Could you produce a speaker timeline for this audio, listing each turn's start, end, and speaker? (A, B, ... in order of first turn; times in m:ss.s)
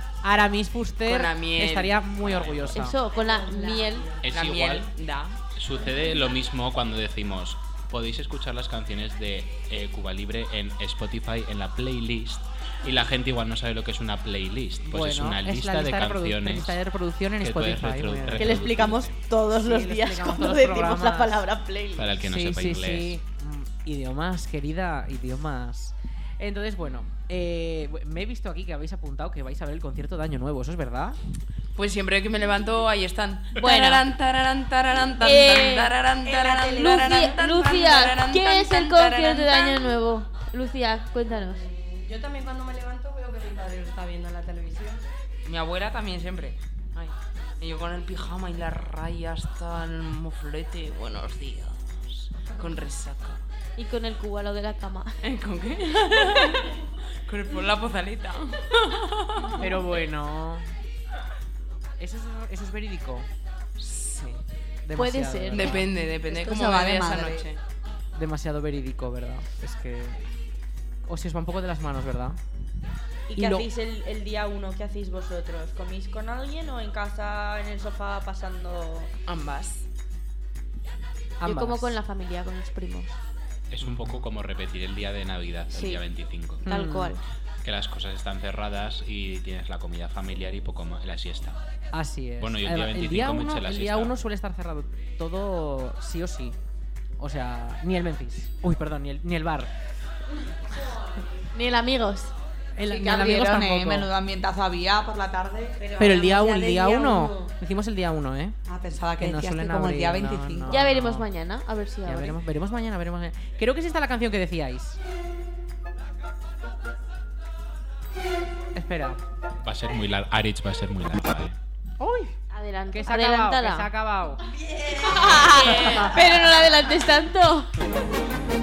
0:00.2-0:03.0 A
0:01.0-0:02.0 B
0:02.2-0:02.7 C
0:02.7-0:04.2 D
0:04.2-0:04.9 C
0:04.3-0:05.4 B
0:05.5-0:16.8 C
0:14.8-0:18.6 A
0:17.4-0:19.2 C
0:18.4-0:22.1 E
0:19.6-0:21.4 A
0:21.9-0:23.2 C
0:22.2-0:31.2 A
0:31.8-0:39.9 B
0:33.6-0:34.0 D
0:35.2-0:36.0 D
0:36.3-0:37.8 F
0:36.8-0:41.6 D
0:41.3-0:45.0 F
0:45.4-0:53.4 B
0:53.8-0:55.2 D
0:55.2-0:56.7 B
0:57.3-0:59.6 B
0:59.6-1:00.7 A
1:02.0-1:03.3 A
1:03.8-1:04.4 B
1:04.9-1:05.9 A
1:05.0-1:05.9 D
1:05.5-1:07.6 B
1:06.3-1:07.5 G
1:08.2-1:10.2 A
1:11.0-1:12.4 A
1:13.3-1:19.1 E
1:13.4-1:13.7 A
1:19.3-1:19.8 B
1:21.4-1:21.9 A
1:21.4-1:23.2 D
1:23.7-1:26.6 C
1:23.8-1:24.2 A
1:25.7-1:26.0 D
1:26.6-1:27.2 A
1:26.7-1:27.2 D
1:27.6-1:31.6 C
1:31.9-1:36.6 A
1:32.4-1:34.2 C
1:37.2-1:39.7 A
1:41.5-1:42.3 D
1:42.8-1:44.1 A
1:42.9-1:45.8 G
1:45.8-1:47.5 F
1:46.0-1:48.6 A
1:48.7-1:50.8 G
1:49.2-1:51.3 A
1:50.7-1:52.4 D
1:52.0-1:55.0 A
1:58.8-1:59.2 A
1:59.6-2:01.6 C
2:02.0-2:02.4 A
2:02.5-2:03.9 D
2:02.9-2:04.4 A
2:05.2-2:07.7 D
2:05.8-2:06.1 A